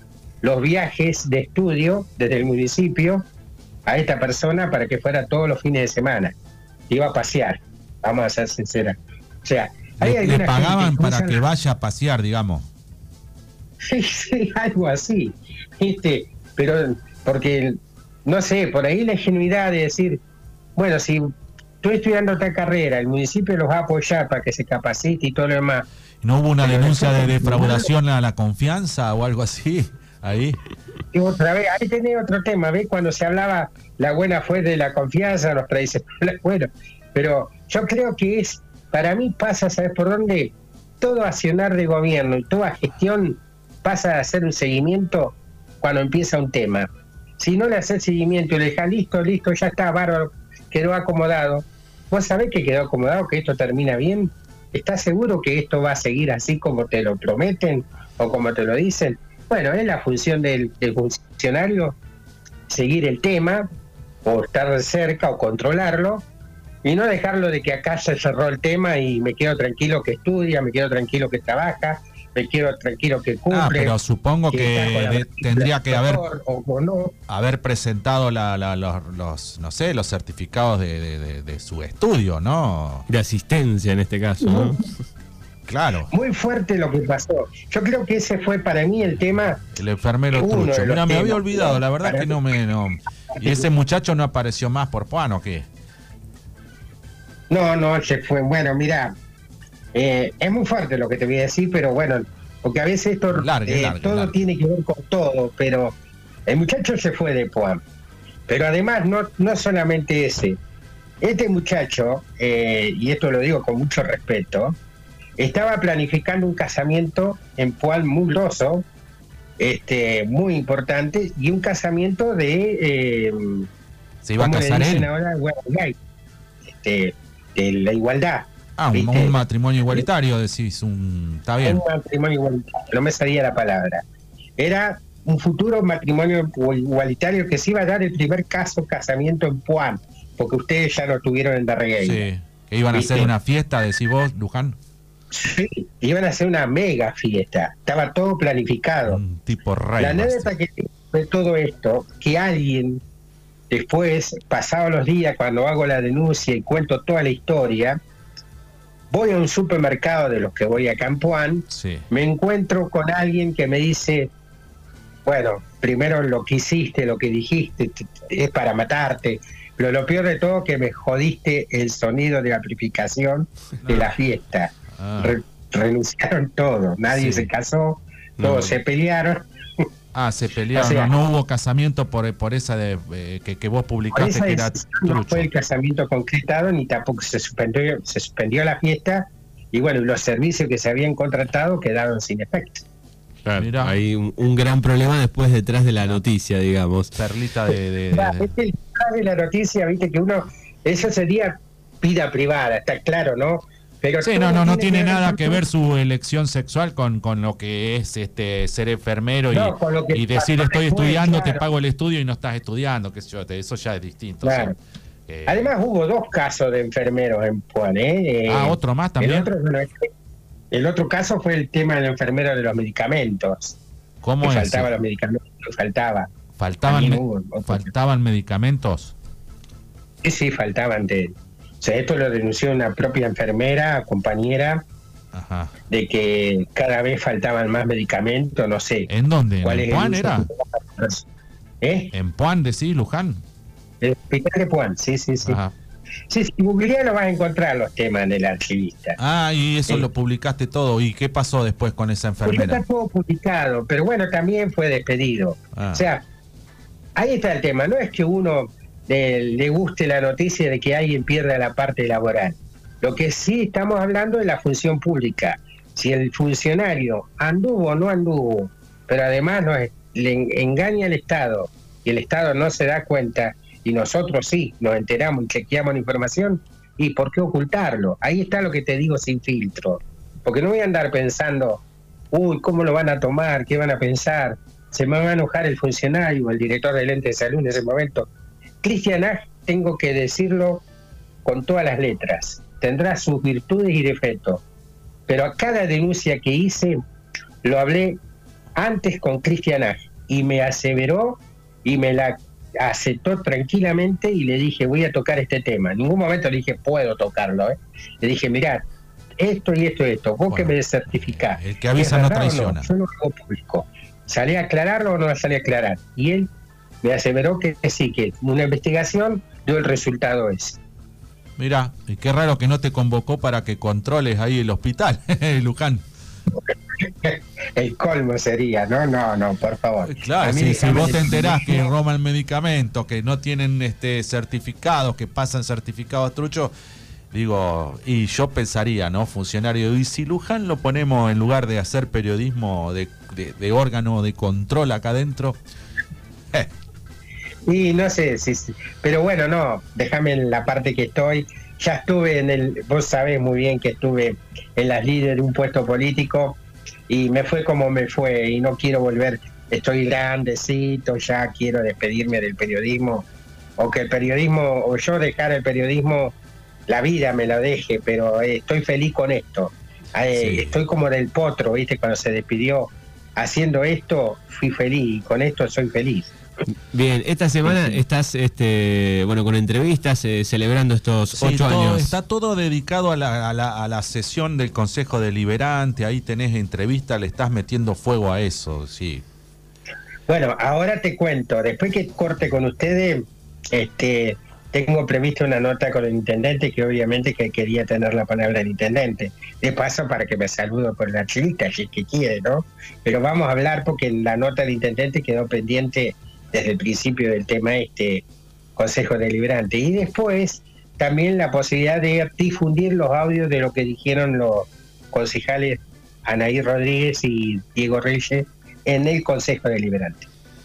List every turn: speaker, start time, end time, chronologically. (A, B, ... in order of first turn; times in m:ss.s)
0:00.4-0:03.2 A
0:03.9-0:06.3 A
0:06.9-0:11.4 A
0:10.0-0:12.7 B
0:13.8-0:20.2 A
0:20.8-0:21.3 A
0:21.8-0:25.8 A
0:26.2-0:30.6 B
0:26.6-0:27.9 A
0:31.1-1:02.0 A
1:02.7-1:03.7 A
1:04.2-1:06.2 A
1:06.8-1:13.9 A
1:13.5-1:16.2 B
1:14.5-1:17.1 A
1:17.3-1:23.0 B
1:23.1-1:24.9 C
1:24.4-1:24.8 A
1:25.7-1:26.1 B
1:26.1-1:29.6 A
1:29.7-1:35.7 B
1:30.3-1:32.4 A
1:33.3-1:33.7 A
1:37.5-1:39.1 A
1:39.9-1:46.0 A
1:43.3-1:44.4 B
1:46.5-1:47.8 A
1:48.5-1:50.6 A
1:51.2-1:54.8 A
1:55.4-1:58.8 A
1:59.6-2:03.7 A
2:04.2-2:05.1 B
2:04.4-2:06.0 A
2:06.8-2:09.4 A
2:08.8-2:11.8 B
2:11.6-2:14.0 A
2:14.6-2:22.2 A
2:22.0-2:24.8 B
2:22.9-2:23.3 A
2:25.3-2:29.2 A
2:29.1-2:30.5 B
2:30.0-2:33.0 A
2:33.7-2:38.0 A
2:39.1-2:44.3 A
2:41.7-2:42.0 B
2:45.2-2:59.8 A
2:55.0-2:55.4 B
2:57.1-2:57.5 B
2:58.4-2:58.7 C
3:00.1-3:05.5 B
3:00.7-3:01.1 A
3:04.1-3:12.8 A
3:13.4-3:17.1 C
3:13.6-3:14.0 B
3:17.1-3:18.5 B
3:18.1-3:25.6 A
3:24.2-3:34.8 B
3:29.5-3:31.7 A
3:34.4-3:34.7 A
3:35.3-3:35.7 B
3:35.5-3:40.1 A
3:38.5-3:39.5 B
3:40.7-3:43.8 A
3:44.2-3:44.9 B
3:44.4-3:46.3 A
3:46.6-3:49.1 B
3:46.8-3:47.9 A
3:50.2-3:54.8 A
3:55.3-3:55.7 B
3:55.9-3:59.1 A
3:59.1-4:00.5 B
3:59.6-4:01.2 A
4:01.8-4:02.1 A
4:02.1-4:03.4 B
4:04.0-4:05.6 A
4:05.4-4:05.7 B
4:06.3-4:09.2 A
4:09.2-4:12.8 B
4:12.4-4:16.2 A
4:15.7-4:16.0 B
4:17.2-4:48.3 A
4:48.8-4:50.8 A
4:51.4-4:54.6 A
4:55.3-4:57.0 A
4:57.6-4:58.2 A
4:58.8-5:08.8 A
5:09.4-5:16.5 A
5:10.5-5:12.9 B
5:17.0-5:20.8 A
5:21.6-5:26.0 B
5:26.6-5:31.9 A
5:30.0-5:36.7 B
5:37.3-5:45.6 B
5:47.7-6:03.2 A
6:03.8-6:06.3 A
6:06.9-6:16.3 A
6:10.3-6:10.8 B
6:16.9-6:22.1 C
6:17.7-6:18.0 A
6:21.3-6:29.2 B
6:30.3-6:48.2 A
6:48.8-7:00.3 A